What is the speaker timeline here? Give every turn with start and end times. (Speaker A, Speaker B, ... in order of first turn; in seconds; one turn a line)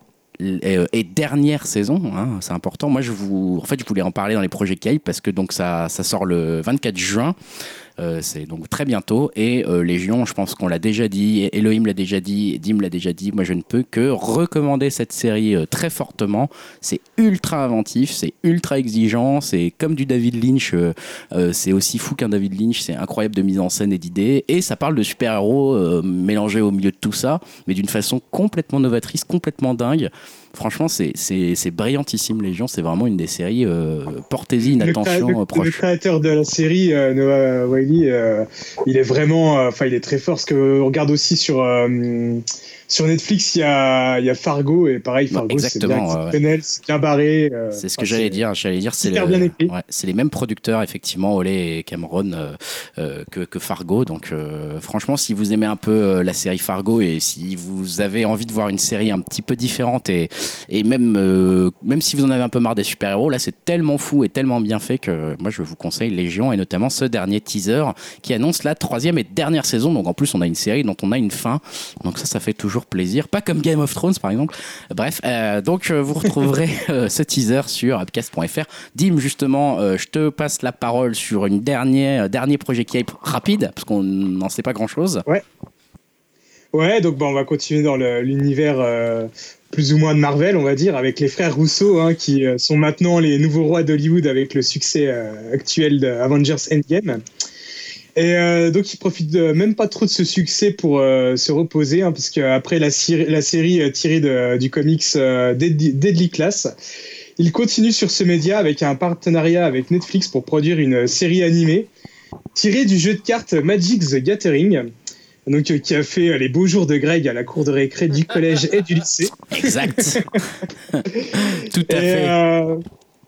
Speaker A: 0.4-7.3
Speaker A: 8.0-35.8
Speaker B: 34.8-48.4
Speaker A: 45.3-46.4
Speaker A: 47.7-85.2
Speaker B: 49.0-49.7
Speaker B: 86.7-97.2
Speaker B: 98.2-106.7
Speaker B: 107.4-111.9
Speaker B: 112.5-114.9
Speaker B: 115.5-120.4
Speaker A: 119.5-122.4
Speaker B: 121.1-122.8